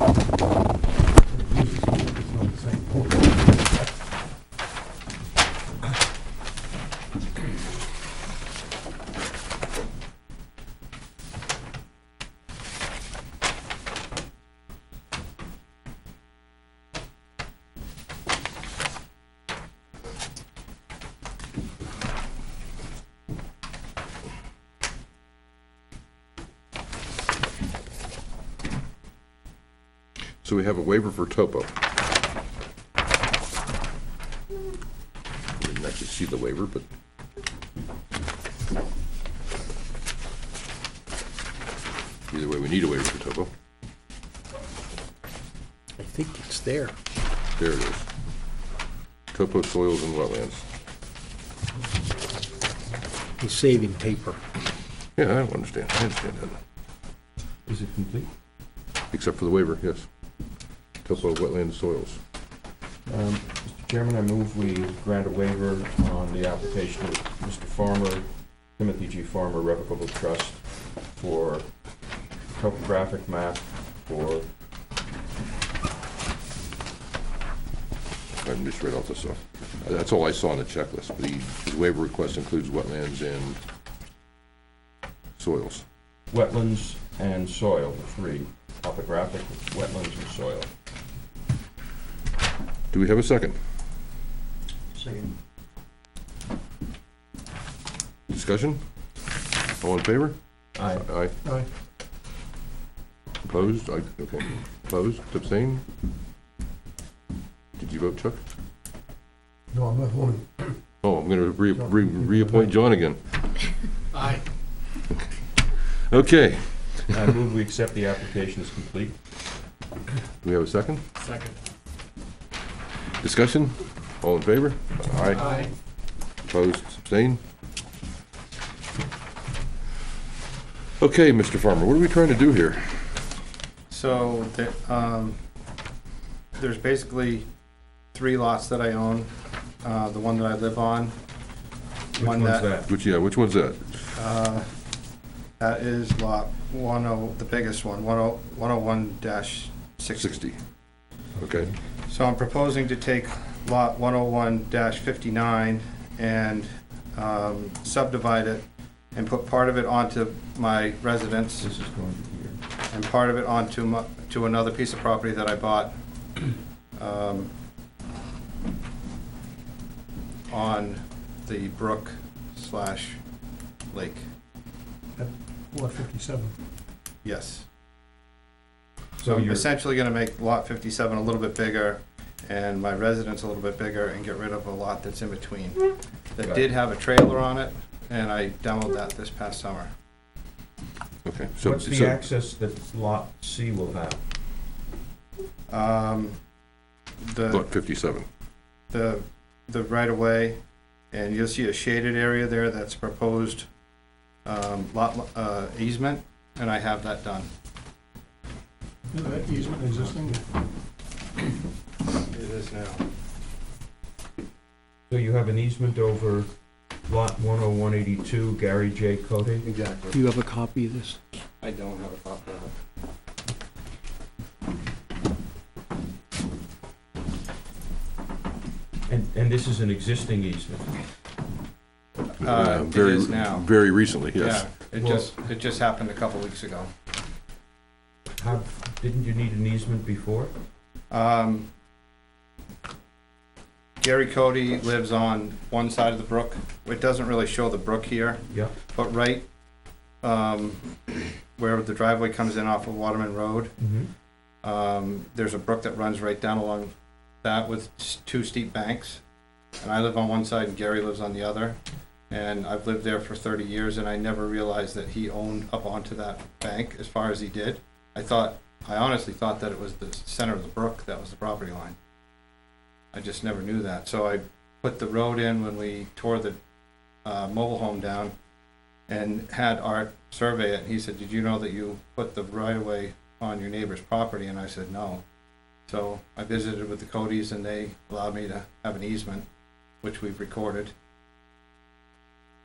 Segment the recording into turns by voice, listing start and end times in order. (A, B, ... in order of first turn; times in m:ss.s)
0:01.5-0:03.2 A
0:30.4-0:31.7 B
0:35.6-0:36.8 B
0:42.3-0:43.5 B
0:46.0-0:47.0 C
0:47.6-0:48.0 B
0:49.3-0:50.6 B
0:53.4-0:54.4 C
0:55.2-0:56.6 B
0:57.7-0:58.3 D
0:59.1-1:00.1 B
1:01.0-1:02.2 B
1:03.1-1:14.5 D
1:18.3-1:23.6 B
1:25.4-1:25.8 B
1:26.3-1:30.7 D
1:32.9-1:33.6 B
1:38.3-1:38.8 B
1:39.8-1:41.4 B
1:40.8-1:41.1 D
1:43.4-1:45.8 B
1:47.8-1:48.4 B
1:49.7-1:50.6 A
1:51.0-1:53.7 B
1:56.1-1:57.2 B
1:57.1-1:59.2 D
2:00.4-2:01.0 B
2:03.2-2:05.6 B
2:05.3-2:05.7 A
2:06.5-2:07.4 B
2:11.0-2:13.3 B
2:13.9-2:15.4 E
2:16.6-2:17.5 E
2:18.1-2:19.3 E
2:19.8-2:21.2 E
2:22.2-2:22.9 D
2:22.2-2:22.7 E
2:22.9-2:24.1 B
2:24.2-2:24.7 E
2:25.6-2:30.4 E
2:30.2-2:30.6 B
2:31.4-2:31.8 D
2:31.4-2:31.7 B
2:32.1-2:41.7 E
2:41.6-2:42.6 D
2:42.9-2:45.9 E
2:47.0-2:47.5 E
2:50.5-2:53.2 E
2:53.9-2:54.2 E
2:55.2-2:56.6 A
2:57.2-2:57.7 E
2:59.2-2:59.7 D
2:59.2-3:09.9 E
3:11.2-3:12.2 B
3:11.6-3:14.2 D
3:15.7-3:16.4 E
3:17.2-3:17.7 E
3:17.5-3:18.3 B
3:18.9-3:20.6 E
3:21.1-3:23.7 E
3:24.4-3:27.5 E
3:29.1-3:30.4 A
3:32.3-3:33.0 E
3:35.1-3:36.5 D
3:37.1-3:39.7 D
3:39.6-3:40.2 E
3:40.1-3:41.2 C
3:41.6-3:42.7 E
3:49.1-3:51.0 D
3:52.4-3:53.7 E
3:52.4-3:54.6 B
3:54.3-3:56.9 E
3:55.0-3:55.3 D
3:58.4-4:00.5 D
4:01.1-4:01.7 E
4:04.0-4:09.5 E
4:08.5-4:08.8 D
4:10.2-4:13.8 E
4:13.8-4:14.1 D
4:14.6-4:19.2 E
4:19.8-4:32.0 E
4:33.1-4:36.6 E
4:37.2-4:38.3 E
4:39.1-4:45.2 E
4:45.9-4:49.5 E
4:50.0-4:50.9 E